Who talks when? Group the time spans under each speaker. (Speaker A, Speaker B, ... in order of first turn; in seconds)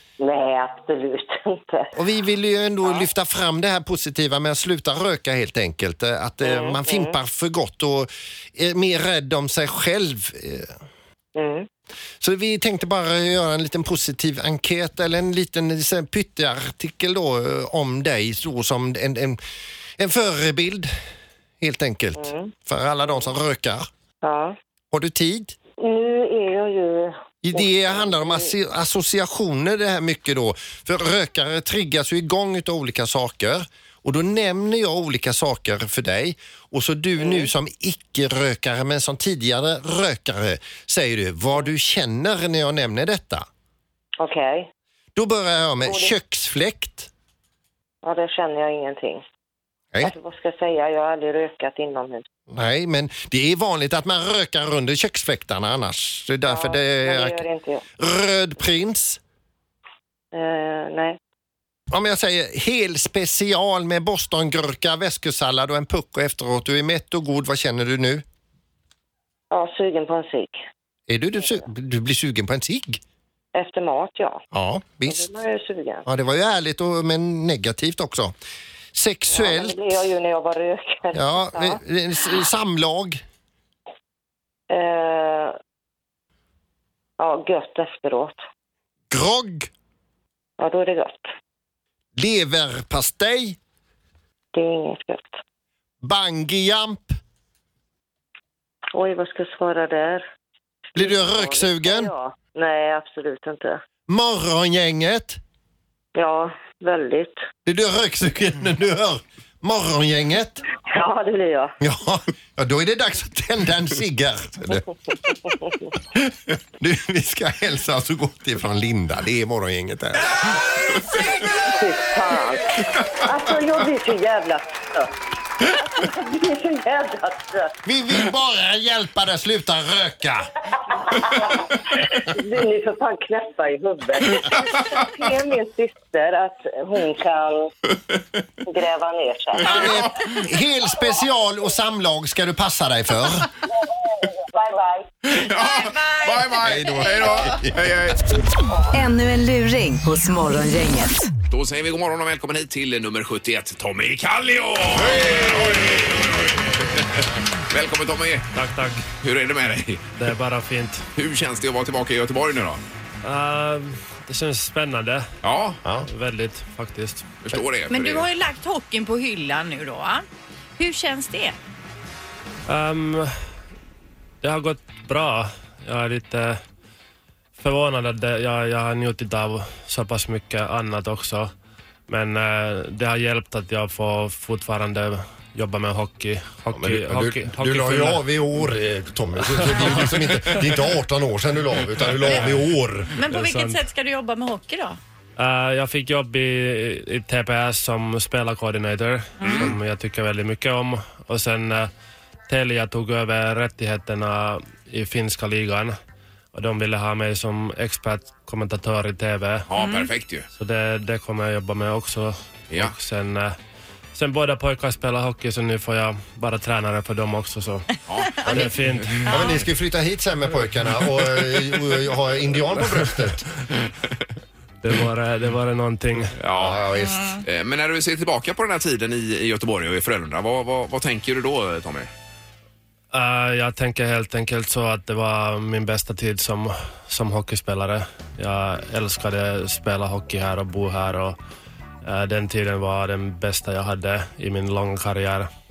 Speaker A: 0.2-1.9, 6.4-7.2, 11.3-11.7, 22.2-22.5, 24.2-24.6, 25.8-28.5, 37.2-37.5, 44.2-44.7, 45.8-46.2, 48.0-49.2, 50.0-52.3, 56.4-57.9, 60.3-61.2, 69.5-70.6, 73.5-74.5, 75.0-76.0, 79.3-81.8, 84.7-85.6, 87.2-88.4, 90.6-91.3, 94.5-95.4, 98.9-100.3, 101.0-103.8, 106.2-107.5, 110.9-111.8, 114.7-115.9, 121.7-125.1, 125.7-127.7, 131.1-131.7, 132.3-137.7, 138.7-140.1, 144.2-145.1
Speaker B: 1.9-10.7, 12.2-19.4, 20.0-20.9, 21.6-23.9, 24.9-25.6, 27.4-43.5, 45.2-47.1, 52.5-57.4, 58.0-59.2, 61.9-68.2, 71.1-73.0, 74.5-75.3, 76.0-78.3, 78.9-79.8, 81.1-83.2, 89.1-89.7, 92.2-93.6, 96.0-97.2, 101.0-102.1, 104.1-105.4, 107.7-110.6, 111.8-114.8, 116.1-120.4, 127.8-130.5, 139.6-143.5, 146.6-147.8, 165.8-166.1, 186.7-193.2, 218.4-223.4, 226.5-227.4
Speaker C: 145.3-148.3, 151.5-158.5, 159.2-160.0, 161.2-162.8, 165.4-165.8, 167.4-168.3, 199.4-199.7, 209.7-210.5, 218.1-218.4, 226.4-226.8, 227.4-232.1
Speaker D: 145.4-147.6, 167.9-170.3, 170.8-171.6, 193.2-195.0, 199.4-199.7, 209.8-210.1, 219.3-219.6, 227.0-227.4
Speaker E: 148.9-151.3
Speaker F: 158.5-159.1, 160.2-161.1, 163.2-165.4, 166.0-167.2, 172.7-173.4, 174.4-176.6, 177.6-181.5, 182.1-188.2, 189.6-190.0, 193.3-193.8, 195.4-201.9, 202.5-206.0, 206.5-209.7, 210.6-213.6, 214.1-217.9, 218.5-219.3, 224.8-226.3, 233.1-241.4, 242.0-245.5